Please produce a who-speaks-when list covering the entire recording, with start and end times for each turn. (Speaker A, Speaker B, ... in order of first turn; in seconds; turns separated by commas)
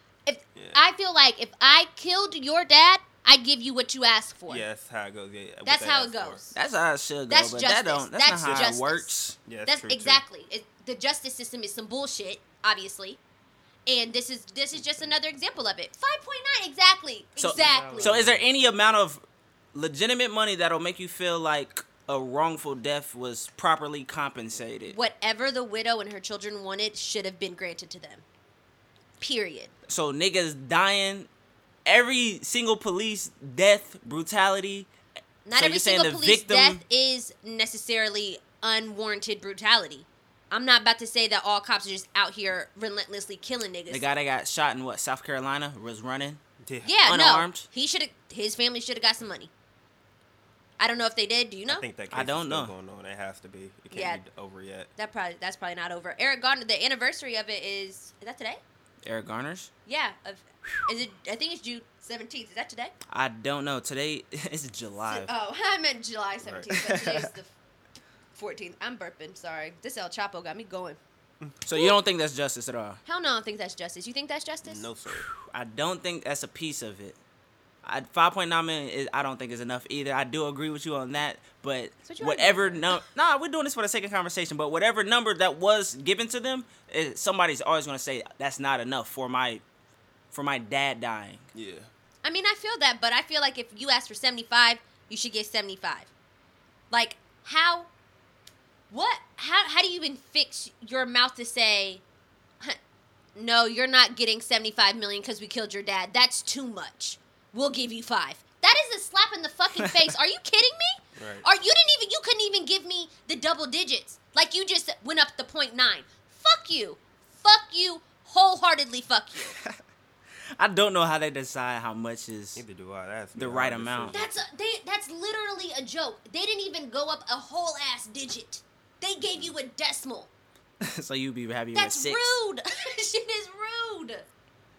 Speaker A: 0.2-4.7, Speaker B: 0.5-0.8, Speaker B: 4.5-6.4, Speaker A: 5.6-6.5, Speaker C: 6.5-9.4, Speaker A: 7.3-13.2, Speaker B: 9.4-10.2, Speaker A: 13.9-18.2, Speaker C: 17.4-19.2, Speaker B: 17.5-18.4, Speaker C: 19.7-24.9, Speaker A: 24.9-28.2, Speaker A: 29.2-29.7, Speaker C: 29.9-31.3, Speaker C: 31.9-34.9, Speaker A: 35.5-44.0, Speaker C: 35.5-36.8, Speaker C: 43.9-46.4, Speaker B: 46.6-46.9, Speaker A: 46.8-49.5, Speaker C: 47.0-47.7, Speaker A: 50.8-51.8, Speaker B: 51.7-54.9, Speaker C: 52.1-52.7, Speaker A: 53.9-54.2, Speaker A: 55.0-58.6, Speaker C: 59.0-59.7, Speaker A: 59.9-62.9, Speaker C: 63.1-65.3, Speaker A: 65.1-67.5, Speaker B: 66.4-66.7, Speaker C: 66.7-67.3, Speaker A: 68.3-71.0, Speaker C: 71.6-73.0, Speaker A: 73.0-74.9, Speaker B: 74.6-75.3, Speaker C: 75.1-77.2, Speaker C: 77.8-89.6, Speaker A: 82.0-83.0, Speaker C: 90.3-91.4, Speaker B: 91.5-91.9, Speaker A: 92.2-96.1, Speaker A: 96.9-97.9, Speaker A: 98.9-102.0, Speaker A: 103.3-119.6, Speaker B: 111.2-111.4, Speaker C: 120.6-122.6, Speaker B: 122.5-124.3, Speaker C: 123.3-124.3, Speaker A: 124.1-130.3, Speaker B: 129.2-129.5, Speaker C: 130.8-132.2, Speaker A: 131.7-134.2